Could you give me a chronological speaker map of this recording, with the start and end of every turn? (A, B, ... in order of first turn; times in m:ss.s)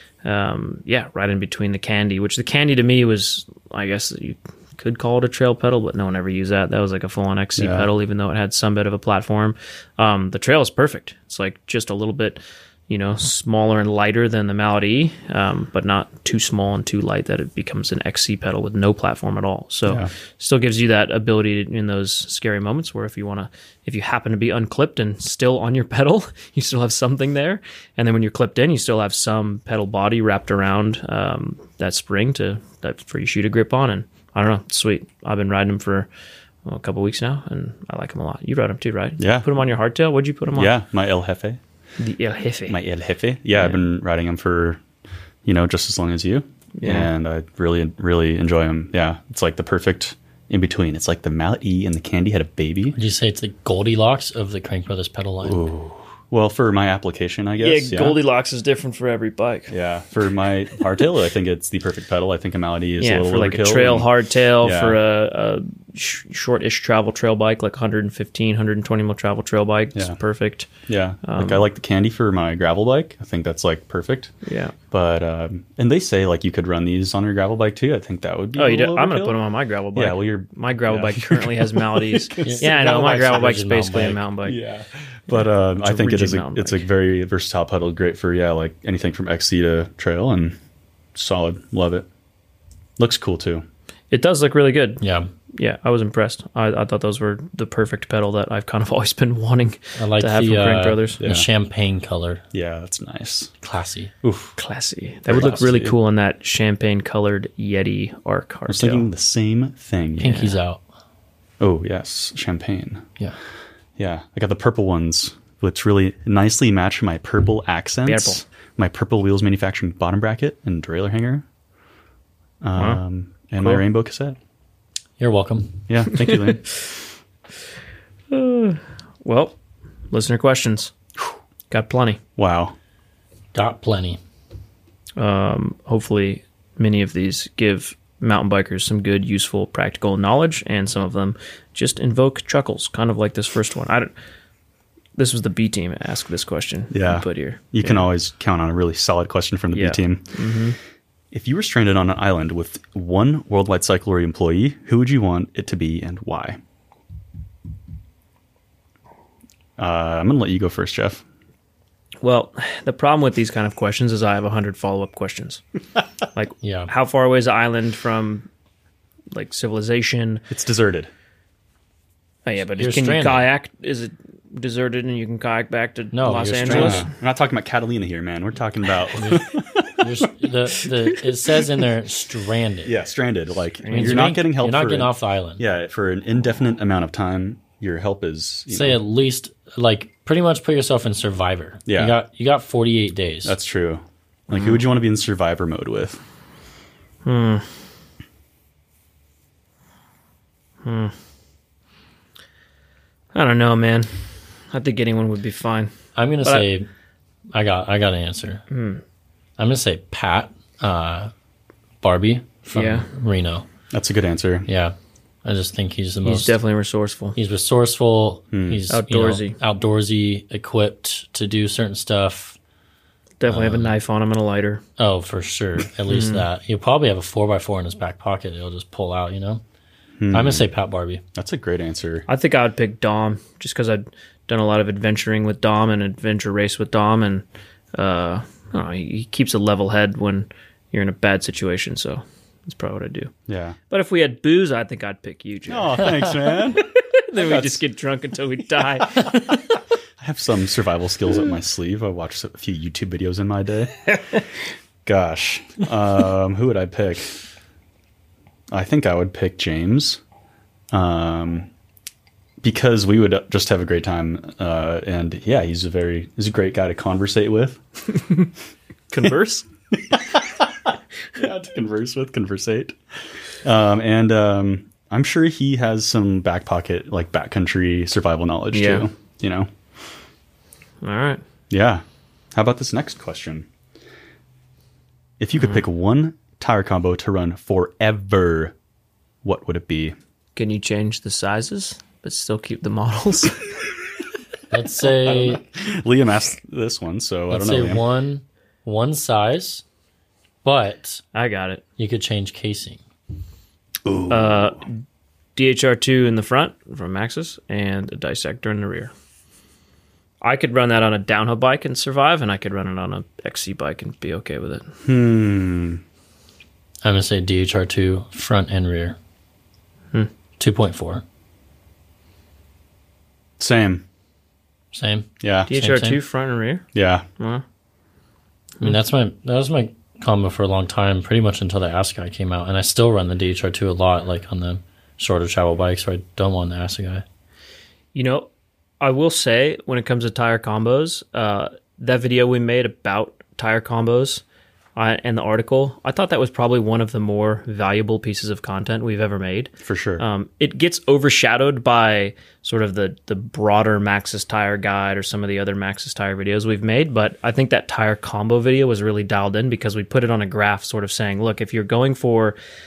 0:00.2-0:36.1 A
0:07.6-0:07.9 B
0:19.8-0:20.1 B
0:36.6-0:40.7 A
0:39.2-0:39.5 B
0:40.5-0:41.6 B
0:42.0-0:42.8 A
0:42.7-0:44.8 B
0:45.4-0:53.0 B
0:46.8-0:47.1 A
0:52.9-0:55.6 C
0:55.4-0:58.2 B
0:57.6-0:59.7 A
0:59.7-1:04.1 B
1:03.0-1:10.7 A
1:04.6-1:05.0 B
1:10.9-1:14.3 B
1:11.2-1:11.6 A
1:14.4-1:14.7 A
1:14.9-1:19.4 B
1:18.6-1:24.6 A
1:19.9-1:22.7 B
1:22.4-1:24.2 C
1:24.4-1:30.6 B
1:25.3-1:26.8 A
1:31.1-1:32.0 B
1:33.0-1:33.6 B
1:34.1-1:35.0 A
1:35.0-1:35.3 C
1:35.5-1:41.2 A
1:40.0-1:42.4 C
1:41.2-1:41.5 B
1:42.5-1:43.5 B
1:43.6-1:44.1 C
1:44.2-1:44.5 B
1:44.6-1:49.1 A
1:45.3-1:45.9 B
1:48.7-1:50.3 B
1:50.2-1:50.6 A
1:50.2-1:50.8 C
1:51.6-1:53.0 B
1:54.0-2:01.4 B
1:58.0-1:58.4 A
2:02.6-2:04.4 B
2:02.8-2:03.0 A
2:05.2-2:05.8 C
2:05.9-2:06.8 B
2:08.3-2:09.6 A
2:10.1-2:10.9 A
2:11.7-2:12.2 A
2:12.4-2:12.8 B
2:13.5-2:14.2 C
2:15.2-2:24.1 A
2:25.2-2:28.0 A
2:26.9-2:30.3 B
2:29.7-2:30.8 A
2:31.3-2:36.6 B
2:39.8-2:41.2 B
2:42.2-2:45.6 A
2:46.3-2:48.5 A
2:46.6-2:46.9 C
2:49.3-2:50.4 A
2:50.5-2:51.1 B
2:52.4-2:57.1 A
2:52.8-2:53.5 C
2:56.1-2:57.1 C
2:56.7-3:00.3 B
2:59.2-3:02.9 C
3:02.8-3:09.0 B
3:03.8-3:04.3 A
3:03.9-3:05.6 C
3:08.7-3:13.5 C
3:11.9-3:12.2 B
3:13.4-3:16.2 B
3:14.5-3:14.8 A
3:17.2-3:17.7 A
3:20.8-3:21.1 A
3:23.3-3:24.1 A
3:24.7-3:26.7 A
3:26.2-3:26.9 C
3:27.5-3:28.6 C
3:28.7-3:29.0 A
3:29.6-3:31.3 C
3:32.0-3:33.7 C
3:32.7-3:33.1 A
3:33.9-3:34.7 B
3:34.6-3:36.6 C
3:36.2-3:37.4 A
3:37.4-3:42.6 C
3:38.5-3:38.8 B
3:38.9-3:39.6 A
3:43.4-3:44.8 A
3:43.5-3:43.9 C
3:45.0-3:49.6 C
3:46.1-3:46.4 A
3:50.2-3:50.7 B
3:50.3-3:51.2 C
3:51.3-3:52.2 B
3:52.3-4:03.3 A
4:03.5-4:03.8 B
4:03.9-4:09.6 A
4:05.7-4:07.8 B
4:09.2-4:09.5 B
4:10.2-4:14.1 B
4:14.1-4:14.4 A
4:15.0-4:17.3 B
4:18.7-4:20.2 B
4:20.9-4:21.7 B
4:22.6-4:27.8 B
4:29.1-4:29.6 A
4:30.1-4:30.7 B
4:31.3-4:32.9 B
4:33.6-4:39.7 B
4:38.7-4:39.1 A
4:41.0-4:41.4 A
4:41.7-4:42.0 B
4:42.5-4:43.7 B
4:45.4-4:48.7 B
4:49.4-4:50.1 B
4:50.6-4:53.8 A
4:54.7-4:55.6 C
4:55.1-4:58.0 B
4:57.5-4:59.8 C
5:00.6-5:01.2 C
5:01.3-5:01.8 A
5:02.0-5:03.0 C
5:04.0-5:04.8 B
5:04.3-5:04.9 A
5:05.6-5:09.1 A
5:10.4-5:14.9 A
5:15.0-5:16.0 B
5:17.0-5:19.2 C
5:20.6-5:21.2 C
5:23.6-5:24.0 B
5:24.9-5:26.2 C
5:25.4-5:25.7 B
5:25.7-5:26.8 A
5:26.9-5:27.2 B
5:27.4-5:27.6 A
5:28.8-5:37.2 C
5:38.1-5:38.5 A
5:39.0-5:44.4 A
5:45.0-6:02.6 A
5:49.8-5:50.2 B